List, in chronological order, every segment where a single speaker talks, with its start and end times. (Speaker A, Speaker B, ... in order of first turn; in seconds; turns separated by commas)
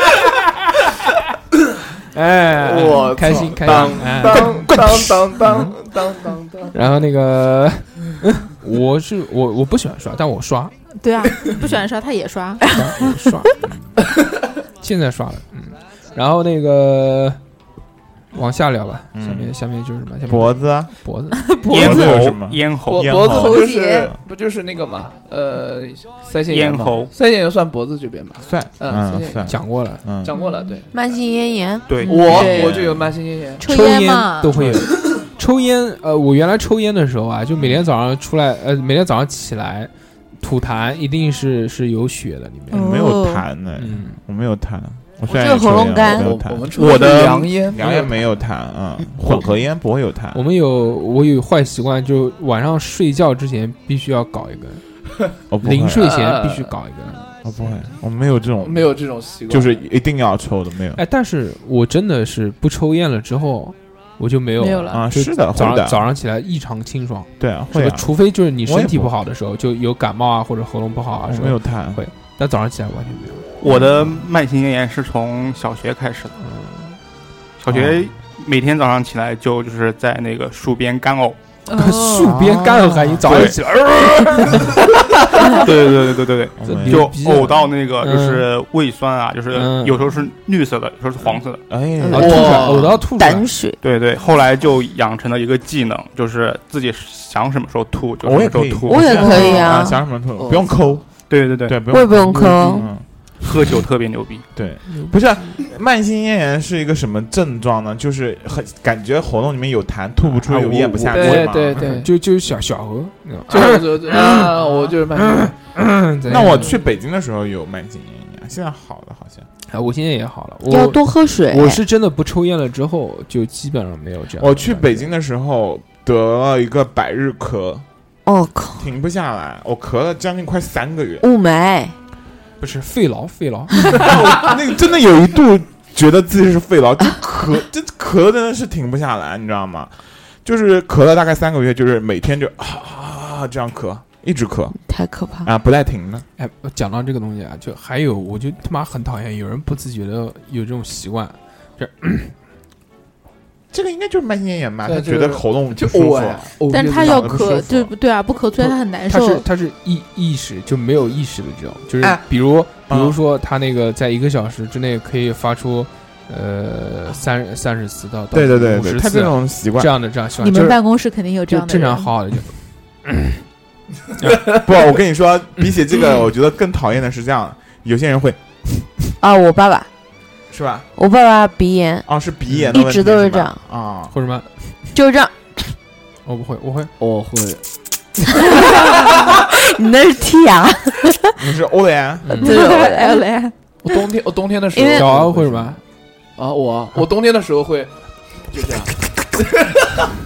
Speaker A: 2.1-4.8, Speaker B: 2.5-6.8, Speaker C: 3.6-5.1, Speaker A: 5.4-5.8, Speaker A: 6.7-10.7, Speaker D: 11.0-13.1, Speaker A: 12.7-14.0, Speaker A: 14.8-17.4, Speaker A: 18.3-21.4, Speaker C: 19.1-19.5, Speaker C: 20.3-20.9, Speaker D: 21.3-22.1, Speaker E: 21.7-23.2, Speaker C: 21.7-23.7, Speaker B: 22.9-29.6, Speaker D: 23.3-24.1, Speaker E: 26.5-27.1, Speaker C: 28.4-30.3, Speaker A: 29.5-30.0, Speaker B: 30.2-30.9, Speaker D: 30.3-30.8, Speaker F: 30.9-31.9, Speaker E: 31.9-32.5, Speaker D: 32.0-32.8, Speaker B: 32.1-33.6, Speaker C: 32.3-33.1, Speaker D: 33.6-34.6, Speaker A: 33.6-42.9, Speaker C: 34.6-34.8, Speaker D: 42.7-43.4, Speaker C: 42.7-50.4, Speaker A: 43.8-44.2, Speaker F: 45.2-46.3, Speaker B: 46.0-48.2, Speaker E: 46.7-47.5, Speaker A: 50.3-54.8, Speaker C: 55.5-56.1, Speaker A: 55.6-57.2, Speaker B: 56.0-57.3, Speaker C: 57.4-58.9, Speaker B: 58.6-59.8, Speaker C: 59.5-61.0, Speaker A: 61.0-73.5, Speaker D: 64.6-65.0, Speaker C: 64.9-66.0, Speaker C: 67.4-68.1, Speaker C: 68.6-69.1, Speaker C: 71.2-72.0, Speaker E: 73.6-76.3, Speaker C: 73.6-74.2, Speaker A: 76.4-77.0, Speaker E: 77.6-81.4, Speaker C: 77.7-78.0, Speaker D: 81.7-82.3, Speaker A: 81.7-84.8, Speaker C: 82.2-83.5, Speaker E: 83.2-83.6, Speaker E: 85.5-91.6, Speaker C: 86.6-87.1, Speaker A: 86.6-88.5, Speaker A: 89.5-90.1, Speaker C: 91.7-92.8, Speaker F: 92.0-93.8, Speaker A: 92.1-93.5, Speaker B: 92.1-92.9, Speaker E: 93.8-99.4, Speaker C: 98.2-101.0, Speaker F: 98.9-100.0, Speaker B: 100.3-101.0, Speaker E: 101.3-101.8, Speaker C: 101.7-103.0, Speaker F: 101.9-102.9, Speaker E: 103.4-104.4, Speaker C: 104.5-112.0, Speaker A: 104.8-105.2, Speaker A: 110.2-116.8, Speaker B: 111.1-112.1, Speaker B: 113.5-115.5, Speaker C: 116.3-119.5, Speaker A: 119.7-125.1, Speaker F: 120.7-121.8, Speaker C: 124.4-127.8, Speaker F: 128.2-128.9, Speaker C: 128.8-131.2, Speaker F: 131.2-131.9, Speaker A: 132.6-134.1, Speaker C: 133.9-144.8, Speaker F: 144.8-145.5, Speaker C: 145.4-146.2, Speaker A: 146.4-152.3, Speaker C: 153.7-157.9, Speaker B: 154.8-157.7, Speaker D: 156.7-159.4, Speaker A: 158.6-170.8, Speaker C: 162.9-163.2, Speaker C: 168.3-169.9, Speaker D: 170.4-172.1, Speaker A: 171.5-173.4, Speaker A: 174.2-174.5, Speaker C: 174.4-178.9, Speaker F: 179.2-179.9, Speaker C: 180.5-180.8, Speaker F: 180.9-182.1, Speaker C: 182.1-184.1, Speaker A: 182.5-182.7, Speaker F: 182.7-183.6, Speaker A: 184.1-184.5, Speaker F: 184.9-185.4, Speaker A: 186.2-186.9, Speaker B: 187.0-187.6, Speaker F: 188.4-191.3, Speaker C: 191.4-192.3, Speaker A: 192.2-192.5, Speaker D: 192.3-193.5, Speaker F: 192.4-193.3, Speaker B: 193.8-195.8, Speaker F: 194.7-195.1, Speaker A: 194.9-195.8, Speaker B: 196.4-197.9, Speaker B: 198.5-199.8